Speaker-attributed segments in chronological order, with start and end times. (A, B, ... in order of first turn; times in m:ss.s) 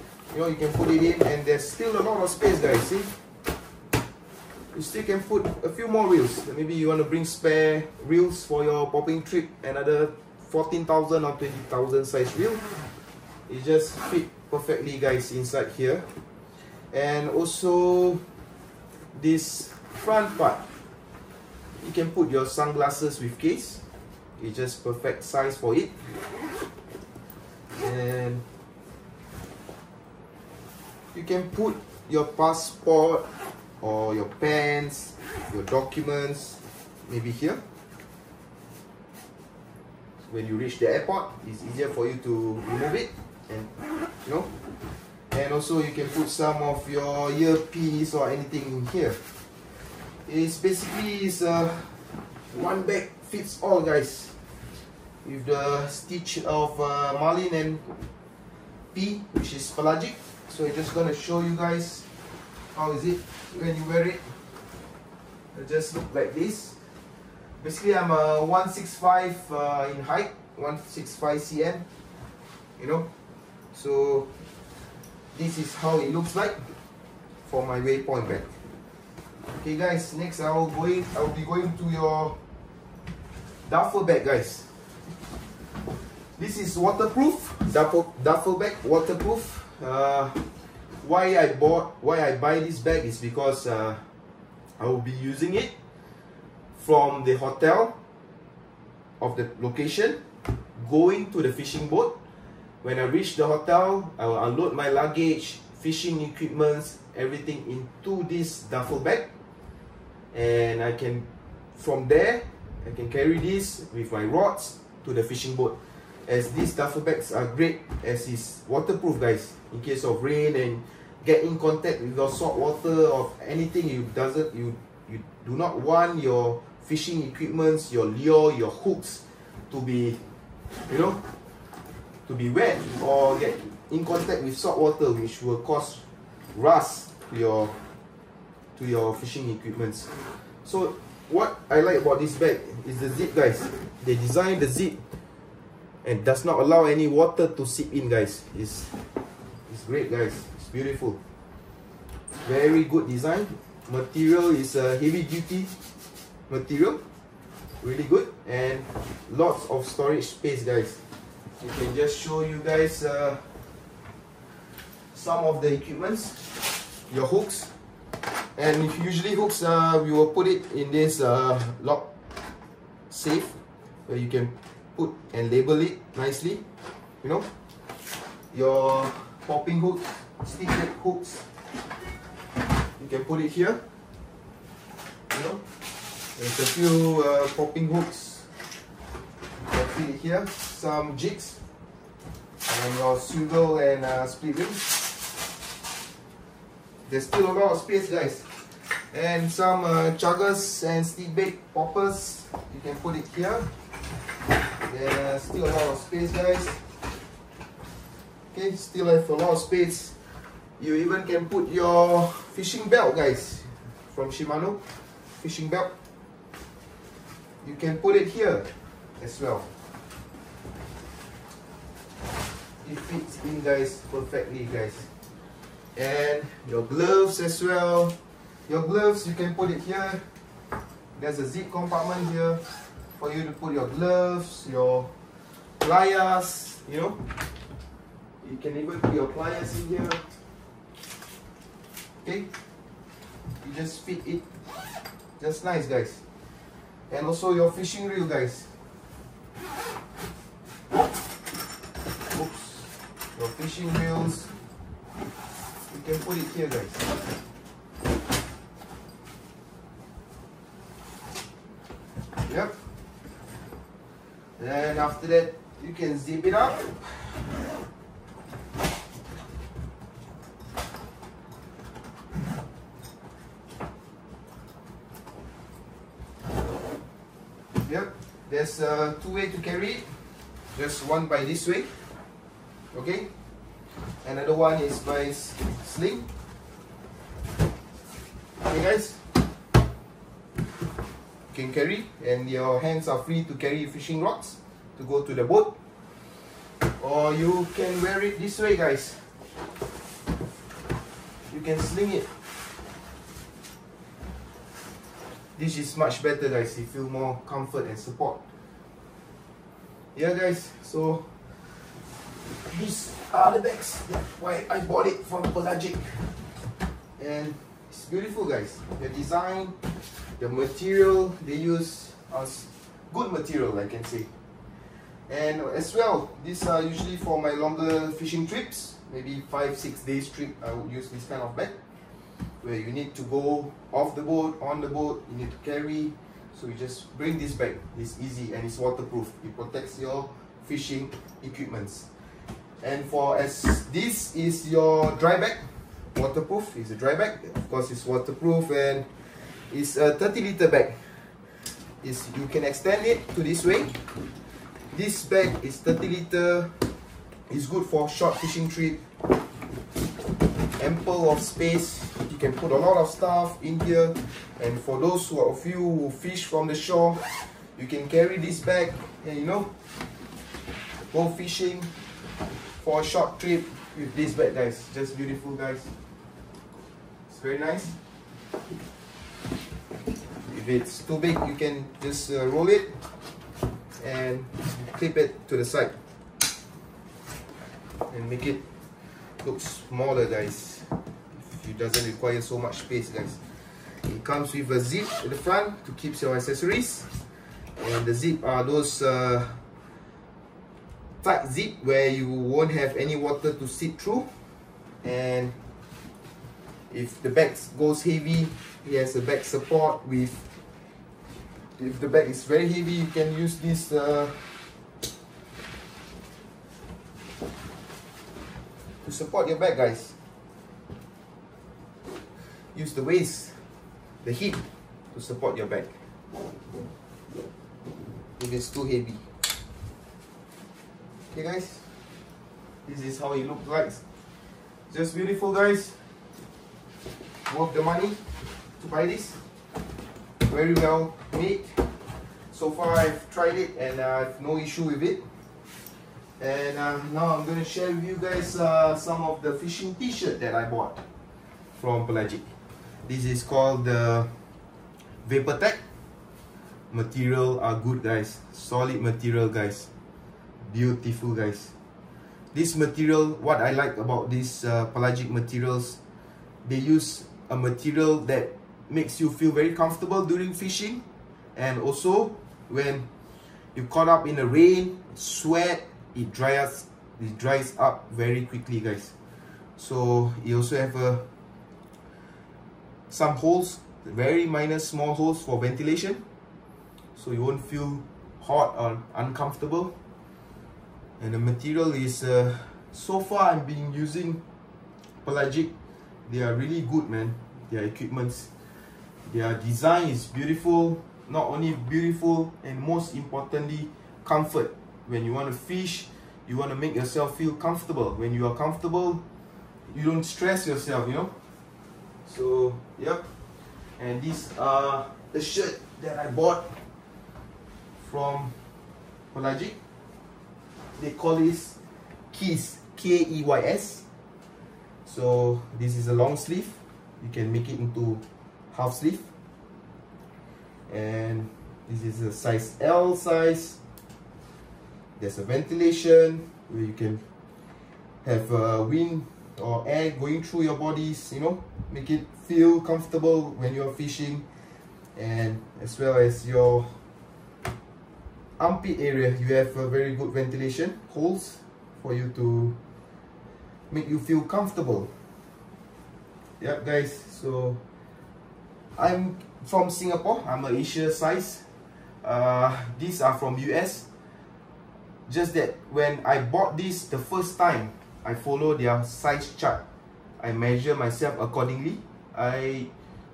0:00.3-0:03.2 A
0:04.7-0:12.8 A
0:13.5-0:16.1 A
0:16.9-0:18.3 A
0:19.1-0:20.7 A
0:21.8-0:23.8 A
0:24.4-0:26.1 A
0:27.8-0:28.4 A
0:31.1-0:33.3 A
0:33.8-0:37.6 A
0:40.3-0:43.7 A
0:44.2-0:44.6 A
0:45.3-0:49.3 A
0:50.3-0:54.4 A
0:55.2-0:57.8 A
0:58.9-1:02.1 A
1:02.7-1:04.4 A
1:05.5-1:06.8 A
1:07.6-1:11.9 A
1:12.8-1:13.1 A
1:13.7-1:14.3 A
1:15.3-1:16.8 A
1:17.4-1:18.6 A
1:19.6-1:22.4 A
1:23.7-1:24.7 A
1:26.4-1:34.0 A
1:34.8-1:35.7 A
1:36.8-1:38.0 A
1:39.2-1:40.2 A
1:40.8-1:42.1 A
1:42.8-1:49.3 A
1:50.3-1:55.8 A
1:56.3-2:10.2 A
2:10.9-2:11.2 A
2:12.3-2:17.8 A
2:18.8-2:25.0 A
2:26.0-2:29.0 A
2:29.7-2:31.2 A
2:32.4-2:35.7 A
2:36.5-2:37.0 A
2:37.8-2:41.0 A
2:41.6-2:43.6 A
2:45.1-2:47.7 A
2:48.6-2:52.1 A
2:53.1-2:56.6 A
2:57.2-2:57.5 A
2:58.5-3:01.5 A
3:03.0-3:03.8 A
3:05.3-3:05.7 A
3:06.3-3:08.5 A
3:09.6-3:11.6 A
3:12.6-3:15.2 A
3:17.1-3:23.7 A
3:24.8-3:26.8 A
3:28.5-3:30.2 A
3:30.8-3:34.8 A
3:35.4-3:35.9 A
3:37.6-3:39.7 A
3:42.8-3:45.1 A
3:46.0-3:50.3 A
3:51.2-3:57.3 A
3:58.4-4:00.2 A
4:02.2-4:02.5 A
4:03.6-4:04.5 A
4:05.4-4:06.2 A
4:07.1-4:08.7 A
4:12.3-4:14.5 A
4:15.9-4:17.1 A
4:22.5-4:22.8 A
4:24.6-4:27.4 A
4:37.8-4:42.0 A
4:42.9-4:43.3 A
4:44.2-4:46.3 A
4:48.6-4:49.2 A
4:51.5-4:55.7 A
4:56.8-4:59.4 A
5:01.5-5:02.3 A
5:05.6-5:08.4 A
5:10.2-5:11.8 A
5:12.6-5:16.4 A
5:17.2-5:19.8 A
5:20.4-5:24.3 A
5:25.3-5:31.8 A
5:32.6-5:42.1 A
5:42.8-5:54.1 A
5:54.9-5:56.9 A
5:57.5-5:59.0 A
6:00.8-6:09.7 A
6:11.0-6:11.9 A
6:12.8-6:15.9 A
6:17.3-6:18.0 A
6:20.4-6:23.0 A
6:24.0-6:26.0 A
6:28.1-6:37.1 A
6:37.8-6:39.6 A
6:41.2-6:44.3 A
6:45.0-6:45.6 A
6:46.9-6:50.5 A
6:51.8-6:54.6 A
6:59.0-7:00.2 A
7:02.7-7:03.7 A
7:04.2-7:06.0 A
7:08.4-7:09.3 A
7:11.3-7:11.8 A
7:12.8-7:14.0 A
7:14.9-7:16.2 A
7:17.5-7:19.4 A
7:20.4-7:22.0 A
7:22.5-7:25.3 A
7:26.4-7:31.0 A
7:31.8-7:32.5 A
7:33.1-7:34.4 A
7:35.2-7:35.8 A
7:36.9-7:39.9 A
7:40.6-7:41.7 A
7:42.5-7:46.0 A
7:46.6-7:51.0 A
7:51.6-7:53.1 A
7:53.8-7:59.1 A
7:59.8-8:01.2 A
8:03.1-8:06.2 A
8:07.2-8:10.0 A
8:11.2-8:14.4 A
8:15.2-8:15.7 A
8:16.3-8:18.5 A
8:19.3-8:29.2 A
8:29.9-8:31.4 A
8:32.2-8:33.3 A
8:34.0-8:36.8 A
8:38.0-8:38.6 A
8:39.3-8:39.8 A
8:41.0-8:41.8 A
8:42.3-8:44.0 A
8:45.1-8:49.3 A
8:50.9-8:53.8 A
8:55.2-8:57.2 A
8:58.2-9:04.5 A
9:05.2-9:07.0 A
9:08.6-9:12.8 A
9:13.9-9:15.1 A
9:16.6-9:17.8 A
9:19.0-9:21.7 A
9:22.2-9:24.0 A
9:25.3-9:29.8 A
9:30.4-9:32.9 A